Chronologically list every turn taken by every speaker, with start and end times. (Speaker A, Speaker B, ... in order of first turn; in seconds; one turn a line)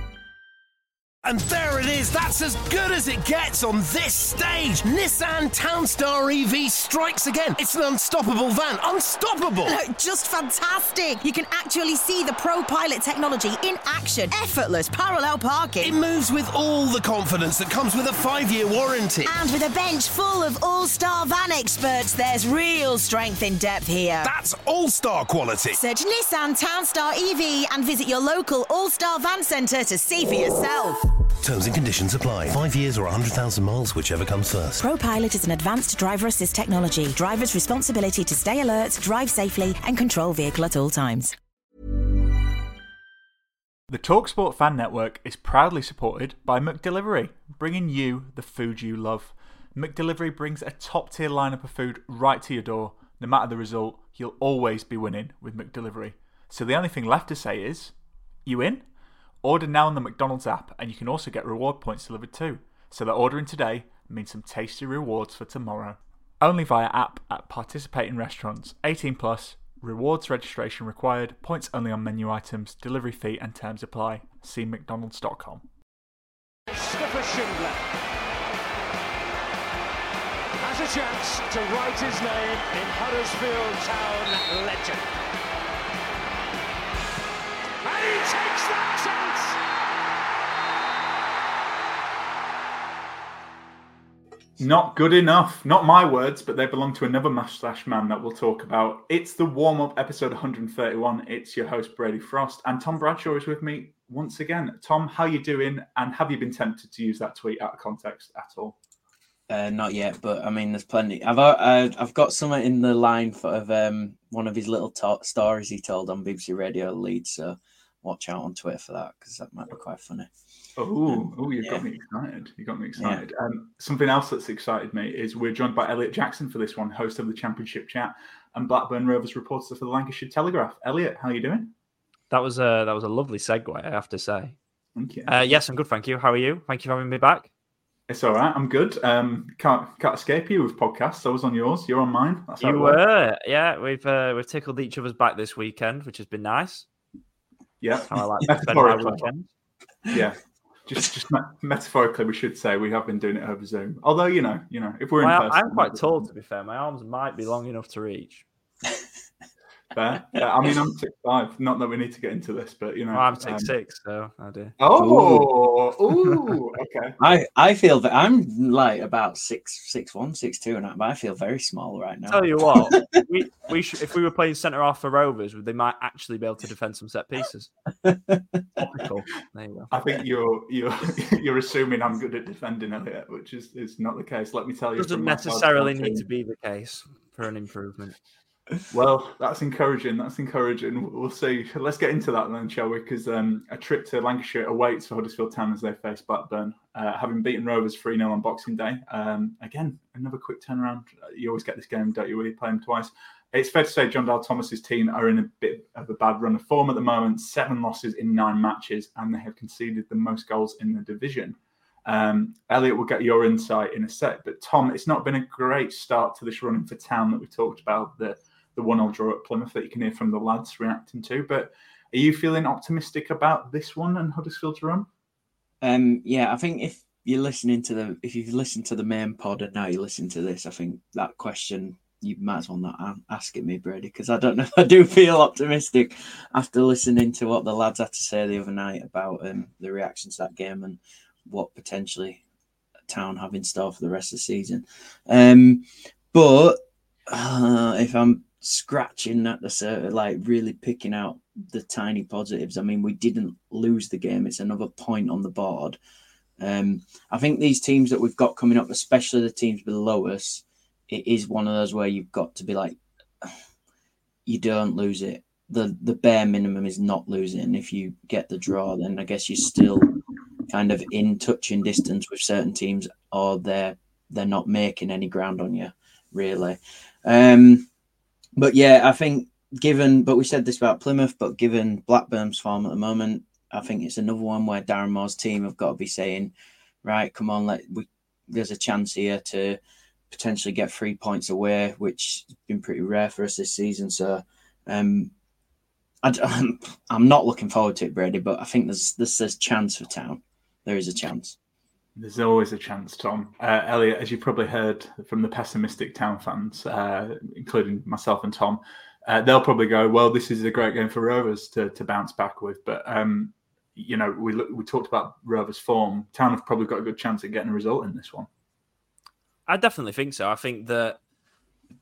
Speaker A: 1.2-9.7
Speaker B: 9.7-16.0
Speaker A: 15.8-19.3
Speaker B: 19.2-24.3
Speaker A: 24.2-25.8
Speaker B: 25.7-31.0
Speaker A: 31.4-34.8
Speaker B: 34.8-41.3
Speaker C: 43.9-57.9
Speaker C: 58.5-58.8
Speaker C: 59.4-75.6
Speaker D: 76.7-77.8
Speaker D: 80.6-85.1
Speaker D: 87.8-89.6
Speaker C: 94.6-108.8
Speaker E: 109.5-120.3
Speaker C: 120.8-131.7
Speaker E: 121.1-121.8
Speaker E: 123.0-123.2
Speaker F: 132.3-134.6
Speaker C: 134.9-135.5
Speaker F: 135.3-137.5
Speaker C: 138.1-143.0
Speaker F: 142.6-146.9
Speaker C: 147.8-149.3
Speaker F: 148.1-149.5
Speaker C: 150.1-156.3
Speaker F: 155.2-158.4
Speaker C: 159.9-163.7
Speaker F: 163.1-164.8
Speaker C: 164.8-167.2
Speaker E: 164.9-165.5
Speaker E: 167.2-173.1
Speaker F: 172.3-177.7
Speaker E: 178.0-178.5
Speaker F: 178.8-179.9
Speaker C: 179.9-186.2
Speaker F: 184.9-188.1
Speaker C: 188.9-225.1
Speaker E: 225.8-242.4
Speaker E: 243.1-256.0
Speaker E: 256.6-263.5
Speaker E: 264.4-270.1
Speaker E: 270.7-277.9
Speaker E: 278.6-286.5
Speaker E: 287.0-289.8
Speaker E: 290.3-295.3
Speaker E: 296.2-301.6
Speaker C: 302.1-318.5
Speaker F: 319.7-321.2